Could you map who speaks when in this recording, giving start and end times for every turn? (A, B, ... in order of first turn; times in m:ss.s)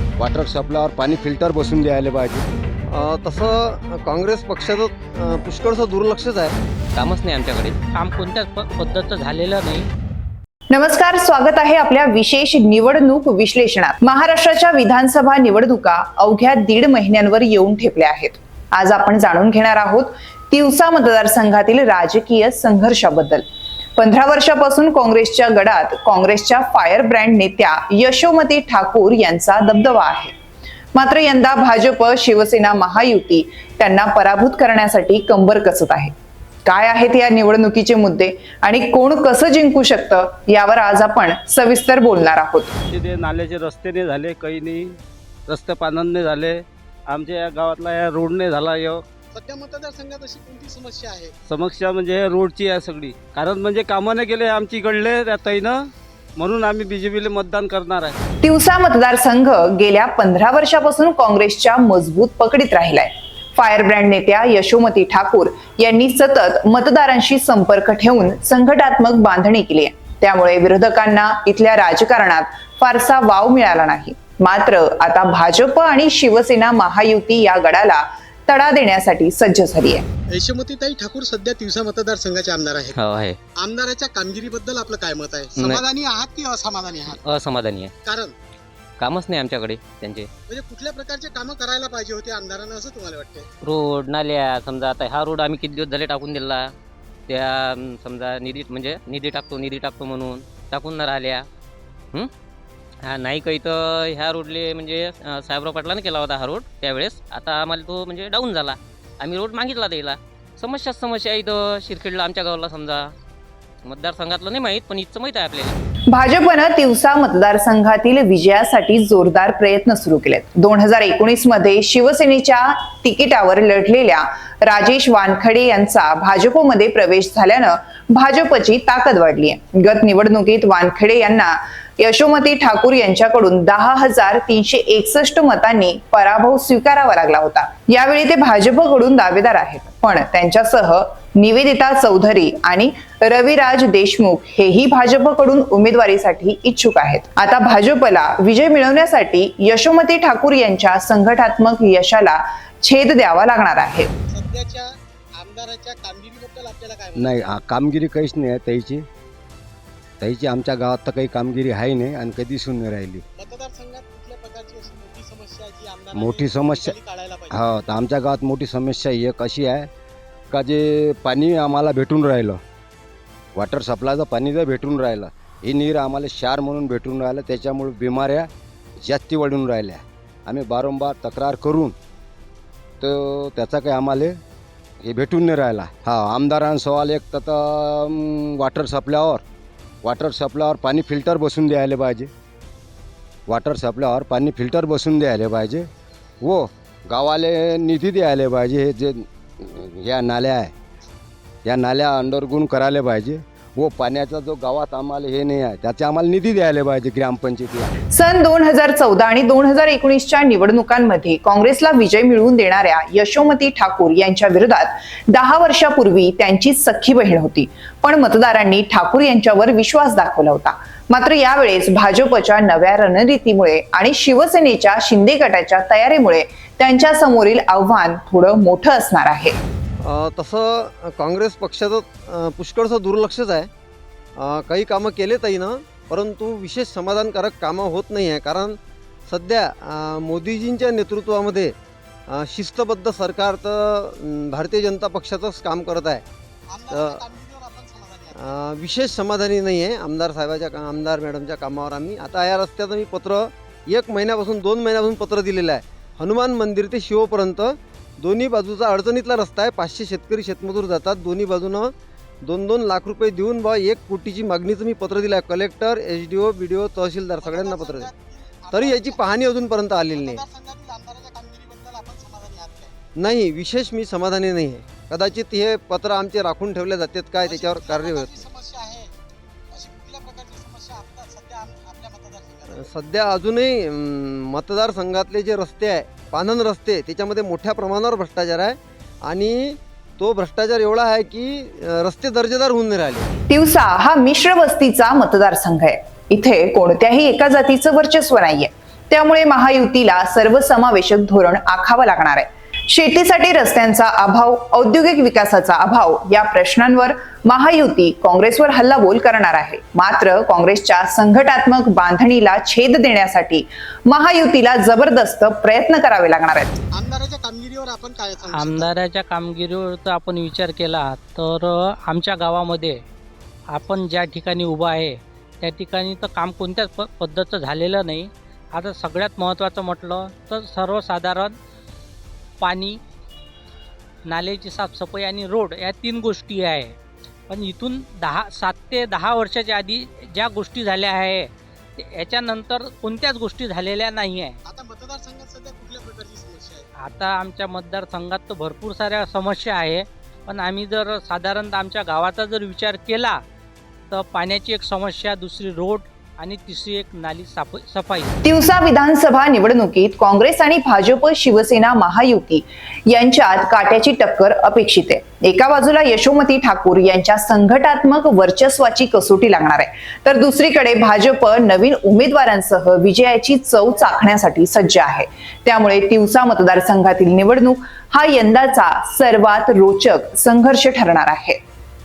0:00.2-0:02.4 A
0:02.9-0:06.5 B
0:06.9-0:07.8 C
0:07.9-0:09.9 D
0:10.7-0:23.4 E
0:24.0-0:30.3 E
0:30.9-0:36.1 E
0:36.6-0:42.7 E
0:42.9-0:44.9 F
0:45.5-0:49.0 F
0:49.3-0:51.3 G
0:51.5-0:55.8 F
0:56.4-0:58.2 F
0:58.4-1:20.0 E
1:20.3-1:23.0 G
1:22.9-1:23.4 C
1:23.6-1:27.2 G
1:27.1-1:27.9 C
1:28.0-1:28.3 G
1:29.0-1:30.3 C
1:30.5-1:33.5 G
1:33.6-1:36.7 C
1:37.3-1:41.4 C
1:43.0-1:53.1 C
1:53.8-1:55.8 C
1:56.1-2:34.1 E
2:34.3-2:37.6 G
2:37.2-2:39.0 A
2:40.2-2:43.2 A
2:43.4-2:47.6 G
2:46.2-2:46.9 A
2:47.5-2:49.9 A
2:50.5-2:52.6 A
2:53.6-2:58.5 A
2:59.0-3:01.9 A
3:03.0-3:04.4 A
3:05.0-3:09.4 A
3:10.0-3:12.3 A
3:13.5-3:15.8 A
3:16.4-3:20.7 A
3:21.6-3:27.9 A
3:28.1-3:49.6 E
3:50.0-3:53.7 B
3:54.4-4:01.7 B
4:02.3-4:06.2 B
4:06.7-4:08.6 G
4:06.9-4:07.2 B
4:08.4-4:21.9 B
4:22.4-4:28.1 B
4:27.4-4:29.4 G
4:28.7-4:30.4 B
4:30.1-4:32.9 G
4:33.2-4:38.4 B
4:37.4-4:39.1 G
4:39.7-4:42.9 G
4:42.7-4:53.3 B
4:53.5-5:16.8 E
5:16.9-5:18.9 G
5:18.5-5:23.0 D
5:23.7-5:31.5 D
5:32.6-5:33.0 D
5:34.3-5:36.9 D
5:37.5-5:44.6 D
5:44.6-5:46.8 G
5:47.0-5:53.4 D
5:54.1-5:58.4 D
5:58.4-6:21.6 E